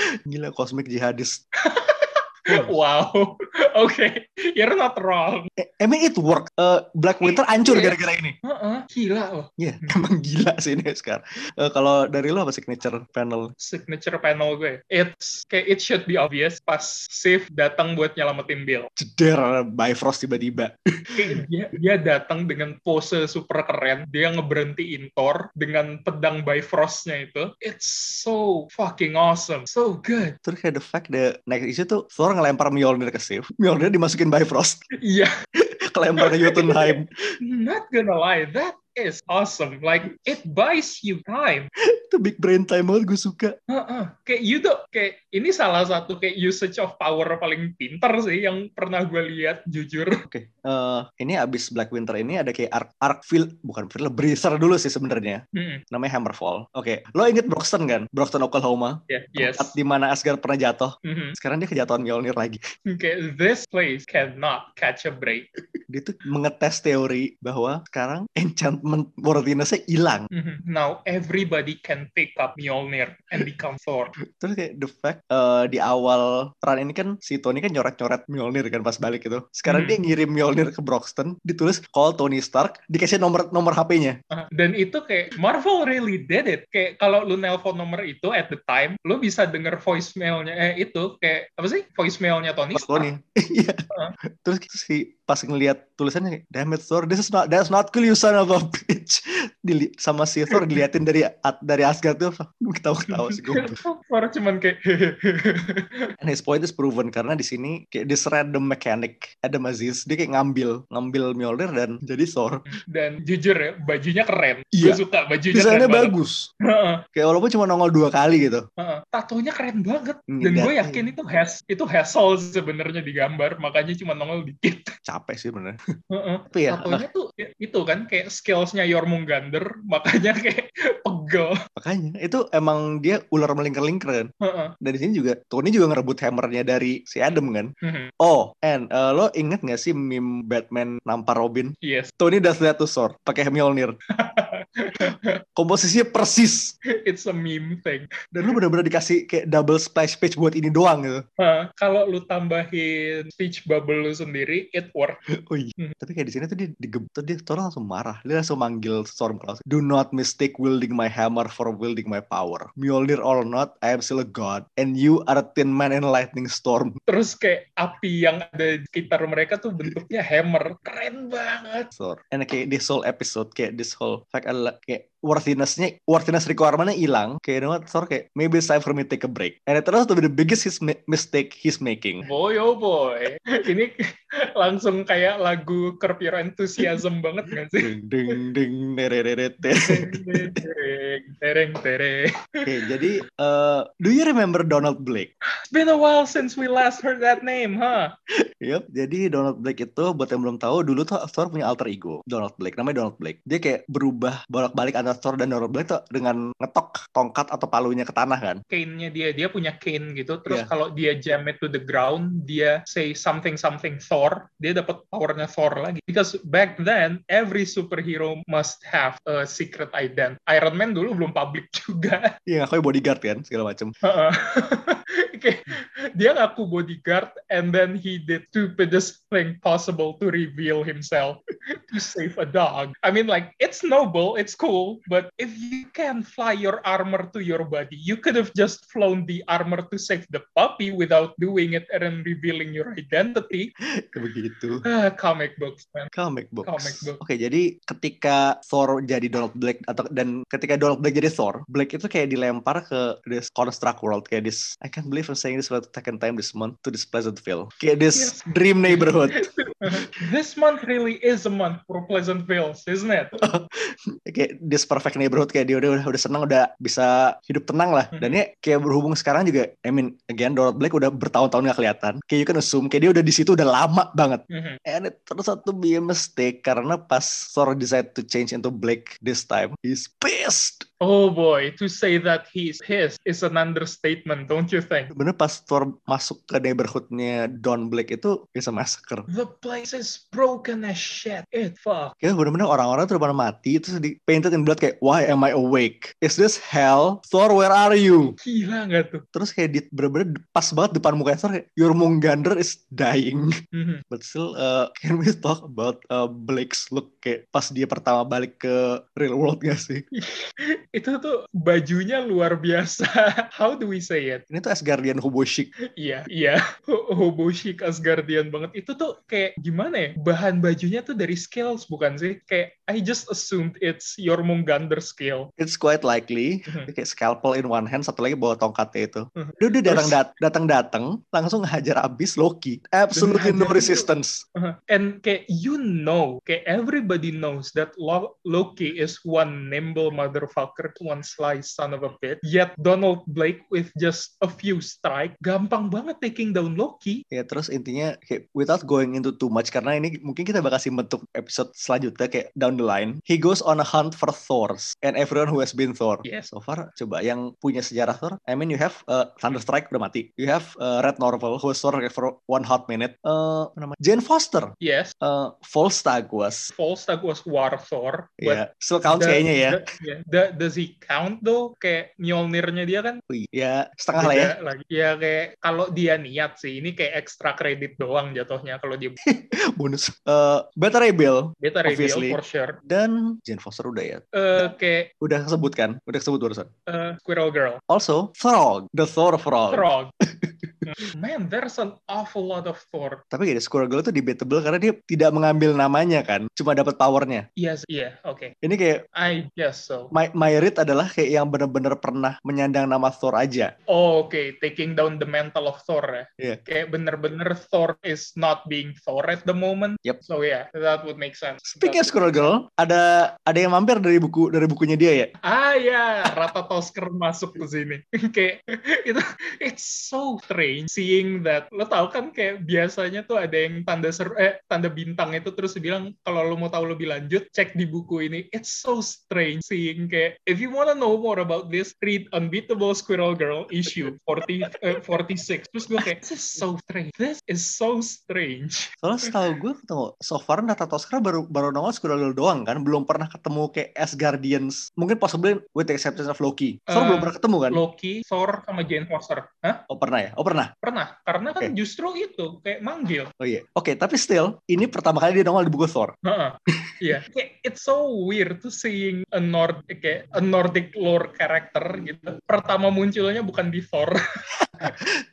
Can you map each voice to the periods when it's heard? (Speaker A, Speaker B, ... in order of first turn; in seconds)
Speaker A: 0.3-1.4, 2.5-2.7, 5.6-8.3, 9.6-13.5, 19.0-21.4, 30.4-34.8, 35.6-37.1, 42.0-43.5, 50.3-62.6, 65.9-70.3, 74.3-84.2, 92.7-93.8, 94.4-103.8, 106.2-112.6, 114.7-116.5, 117.1-118.7, 120.3-121.1, 125.0-125.8, 126.5-127.0, 131.8-144.0, 145.6-146.7, 148.3-151.2, 155.3-167.0, 171.9-182.2, 187.8-190.6, 192.6-195.3, 198.6-208.6, 222.5-223.9, 244.0-244.8, 246.1-259.5, 263.4-280.9, 285.1-289.3, 292.2-298.4, 299.3-303.5, 304.1-310.0, 314.5-315.7, 325.6-334.4, 347.3-366.7, 368.4-369.8, 373.3-374.5, 379.2-384.2, 385.2-386.7, 387.9-390.9, 393.3-397.5, 398.6-399.0, 400.1-403.7, 411.7-415.3, 439.0-447.8, 449.9-450.7, 453.4-456.1, 464.7-465.1
Speaker B: 1.6-5.5, 7.2-10.0, 13.6-18.9, 21.1-30.4, 35.0-35.3, 36.2-41.7, 43.7-50.2, 55.5-55.8, 59.1-59.8, 61.0-61.4, 62.9-65.5, 70.3-74.2, 79.7-80.0, 84.3-93.1, 103.1-106.1, 112.7-117.0, 118.8-124.9, 126.1-131.6, 134.4-134.7, 137.8-138.1, 141.8-142.1, 144.2-145.3, 147.0-148.6, 151.4-155.2, 167.1-171.9, 182.2-188.3, 189.7-193.0, 195.7-198.1, 208.7-222.3, 224.0-243.7, 244.8-246.1, 246.6-247.2, 258.1-263.4, 268.1-268.4, 274.5-274.8, 281.0-285.1, 289.3-292.1, 298.4-299.2, 303.7-304.0, 310.1-314.4, 316.0-325.5, 329.4-330.2, 333.1-347.2, 364.8-365.1, 366.7-373.2, 374.1-379.2, 381.6-382.8, 384.3-385.1, 386.9-387.8, 389.7-390.1, 390.9-393.2, 397.6-398.5, 399.1-400.1, 403.9-412.5, 415.4-438.9, 446.9-449.8, 450.8-453.3, 456.2-464.2